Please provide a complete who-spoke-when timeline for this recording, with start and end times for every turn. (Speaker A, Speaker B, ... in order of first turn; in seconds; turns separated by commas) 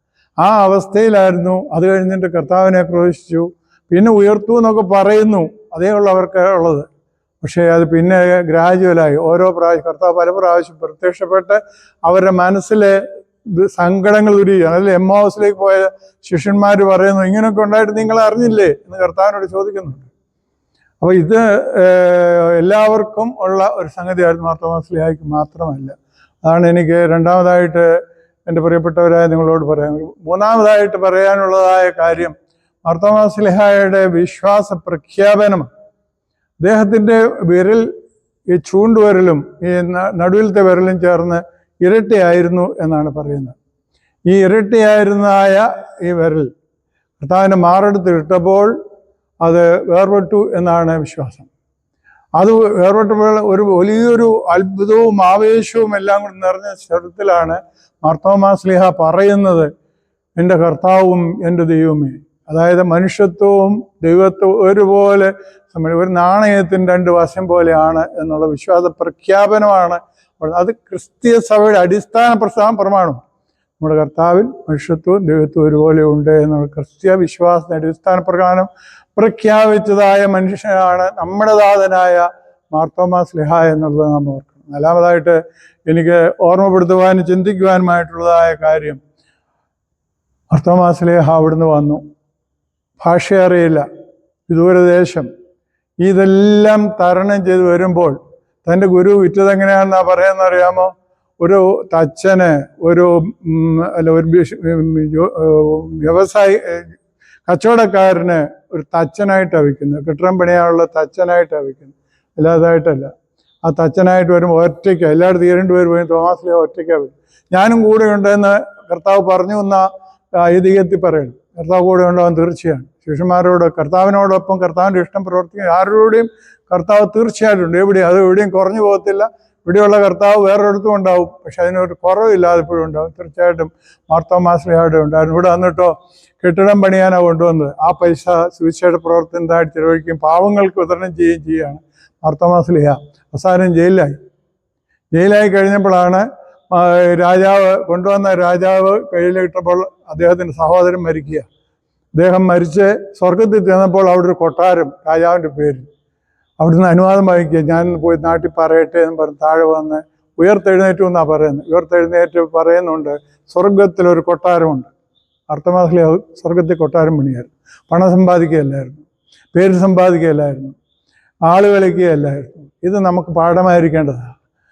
Speaker A: 0.4-6.9, Speaker A: 7.4-20.1, Speaker A: 21.0-27.9, Speaker A: 28.5-32.4, Speaker A: 32.9-35.7, Speaker A: 36.6-37.9, Speaker A: 38.5-43.6, Speaker A: 44.3-46.5, Speaker A: 47.2-48.7, Speaker A: 49.4-51.5, Speaker A: 52.4-59.7, Speaker A: 60.4-73.2, Speaker A: 73.8-89.0, Speaker A: 90.5-92.0, Speaker A: 93.0-93.8, Speaker A: 94.5-95.3, Speaker A: 96.0-106.9, Speaker A: 107.5-113.1, Speaker A: 113.7-144.2, Speaker A: 145.1-151.5, Speaker A: 152.2-155.9, Speaker A: 156.6-164.9, Speaker A: 165.5-170.8, Speaker A: 171.5-174.4